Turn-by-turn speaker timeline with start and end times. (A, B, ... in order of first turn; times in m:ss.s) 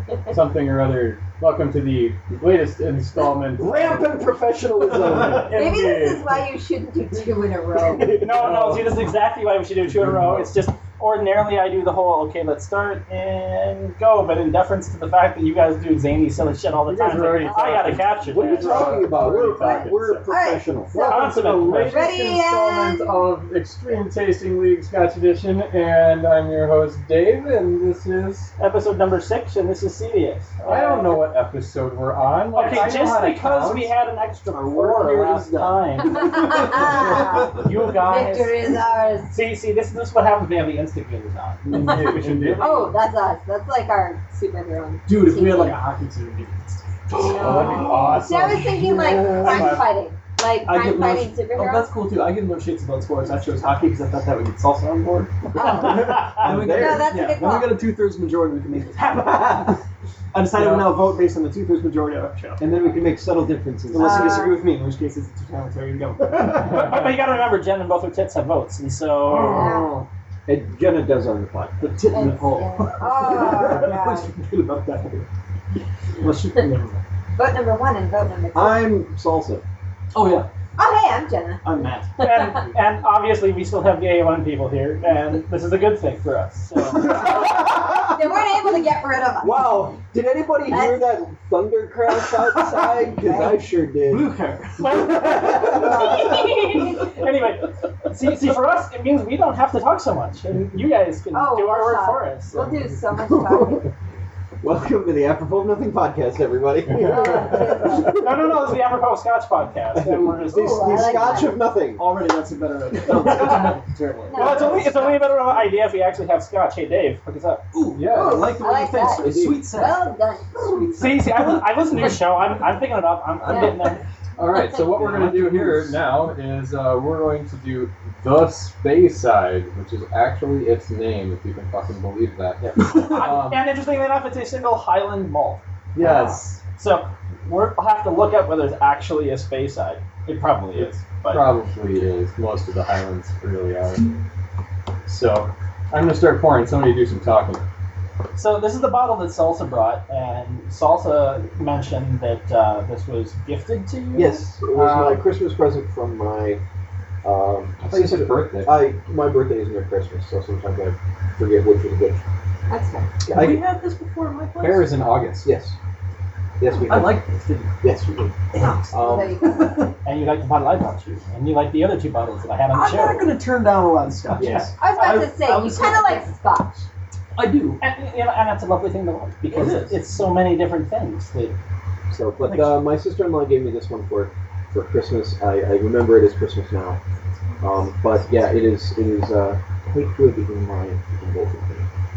0:00.3-0:04.2 A
0:03.6-0:05.6 B
0:05.0-0:06.4 A
0:05.5-0:08.2 C
0:08.0-0:09.0 A
0:08.2-0:19.1 D
0:09.8-0:10.5 A
0:16.8-0:20.3 A
0:18.3-0:21.1 B
0:19.6-0:23.2 C
0:20.9-0:28.5 A
0:21.0-0:22.1 D
0:28.6-0:31.2 D
0:30.6-0:33.9 A
0:32.5-0:38.7 D
0:34.5-0:37.4 E
0:36.1-0:39.3 C
0:39.3-0:42.1 D
0:41.6-0:42.9 A
0:41.6-0:42.9 E
0:42.6-0:45.8 C
0:45.0-0:47.7 E
0:47.2-0:49.9 A
0:47.2-0:51.9 C
0:50.6-0:59.8 E
0:55.5-0:57.8 C
0:55.6-0:56.3 D
0:56.2-0:57.3 B
1:00.3-1:03.1 E
1:02.6-1:04.5 B
1:03.9-1:06.9 E
1:03.9-1:04.6 C
1:06.5-1:09.8 D
1:09.2-1:10.1 E
1:09.4-1:10.0 C
1:10.4-1:12.1 B
1:11.8-1:15.3 E
1:12.1-1:14.3 C
1:16.2-1:17.0 E
1:17.4-1:18.9 C
1:18.5-1:19.6 B
1:20.1-1:20.5 E
1:20.8-1:21.6 C
1:21.6-1:22.1 E
1:22.2-1:22.6 C
1:22.2-1:27.3 D
1:27.0-1:29.7 C
1:27.2-1:28.3 B
1:29.4-1:34.3 B
1:30.7-1:31.0 C
1:32.2-1:32.7 E
1:33.2-1:33.6 C
1:34.0-1:34.9 E
1:34.8-1:42.6 D
1:35.1-1:36.3 B
1:35.6-1:37.1 C
1:41.3-1:43.8 C
1:43.1-1:43.9 B
1:44.6-1:48.4 B
1:46.9-1:48.3 C
1:47.0-1:48.1 A
1:48.1-1:51.1 D
1:50.0-1:52.0 B
1:50.4-1:51.6 C
1:52.0-1:55.2 E
1:53.2-1:53.7 D
1:54.3-1:54.9 C
1:54.3-1:57.6 D
1:57.7-2:02.2 E
1:57.9-1:58.7 A
1:58.1-2:01.0 C
1:59.1-1:59.8 B
2:01.0-2:04.0 D
2:03.4-2:04.0 E
2:03.5-2:03.8 C
2:04.4-2:13.7 A
2:04.9-2:06.0 E
2:12.6-2:12.9 B
2:12.8-2:13.3 E
2:12.9-2:21.5 D
2:16.0-2:16.4 B
2:16.0-2:16.5 A
2:20.8-2:24.2 A
2:25.0-2:27.6 A
2:28.3-2:34.5 D
2:34.1-2:36.6 B
2:34.7-2:35.2 A
2:37.2-2:42.2 B
2:37.8-2:38.8 A
2:42.7-2:43.1 C
2:43.3-2:43.6 B
2:43.3-2:45.1 E
2:44.6-2:45.5 A
2:45.4-2:45.8 B
2:46.6-2:47.2 B
2:46.8-2:47.7 E
2:47.8-2:48.3 B
2:48.5-2:48.8 E
2:48.6-2:49.9 C
2:48.9-2:49.5 B
2:49.4-2:49.9 E
2:50.0-2:53.4 D
2:52.7-2:54.7 E
2:54.4-2:54.7 B
2:54.4-2:55.9 D
2:54.8-2:56.9 C
2:55.5-2:56.2 E
2:57.3-2:57.8 E
2:57.8-3:01.6 D
2:59.5-3:00.0 E
3:02.1-3:07.0 B
3:02.4-3:02.8 D
3:07.6-3:11.8 B